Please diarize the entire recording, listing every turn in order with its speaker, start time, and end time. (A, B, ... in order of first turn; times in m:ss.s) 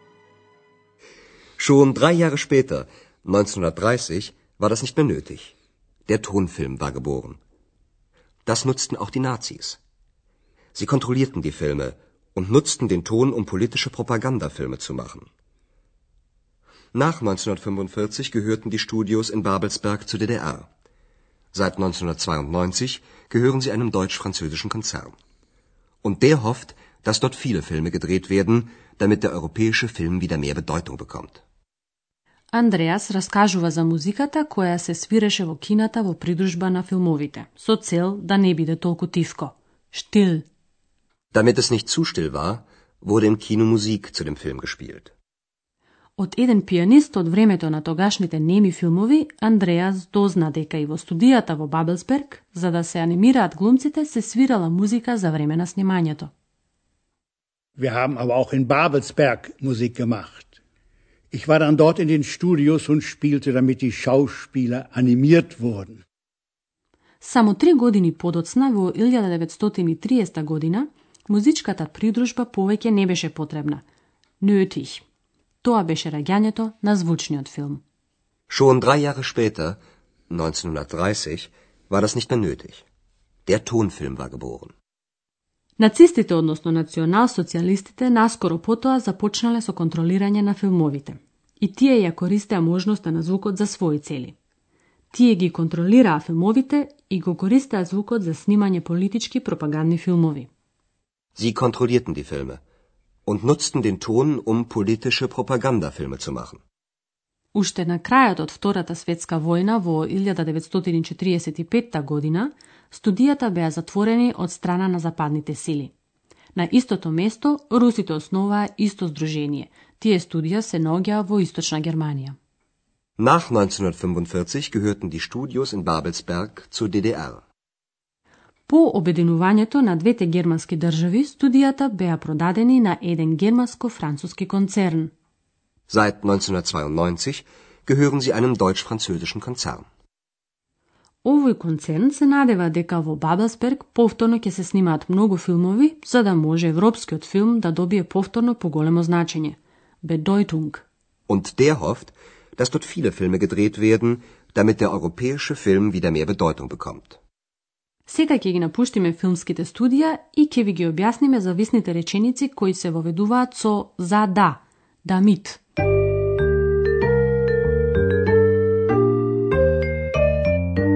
0:01.6-0:05.5 A
0:06.1-0:07.4 A
0:08.4-0:09.8 A
0:10.7-0:15.3 A
0:16.9-0:20.7 A
0:21.5-0:25.1 A
0:26.0-0:31.4 A
0:32.5-0:40.4 B
0:41.3-0:45.1 A
0:46.2-0:56.3 B
0:57.8-1:00.6 C
1:01.3-1:06.0 C
1:07.2-1:13.8 B
1:14.4-1:15.0 B
1:15.6-1:17.8 B
1:18.5-1:19.8 A
1:20.3-1:22.8 A
1:23.5-1:24.7 A
1:25.8-1:34.3 B
1:35.1-1:40.5 B
1:41.4-1:42.6 A
1:43.2-1:46.6 A
1:47.5-1:55.9 B
1:56.5-2:02.4 B
2:03.2-2:07.4 A
2:08.7-2:15.1 B
2:15.9-2:19.8 A
2:21.2-2:30.8 B
2:31.3-2:37.2 A
2:38.0-2:45.6 B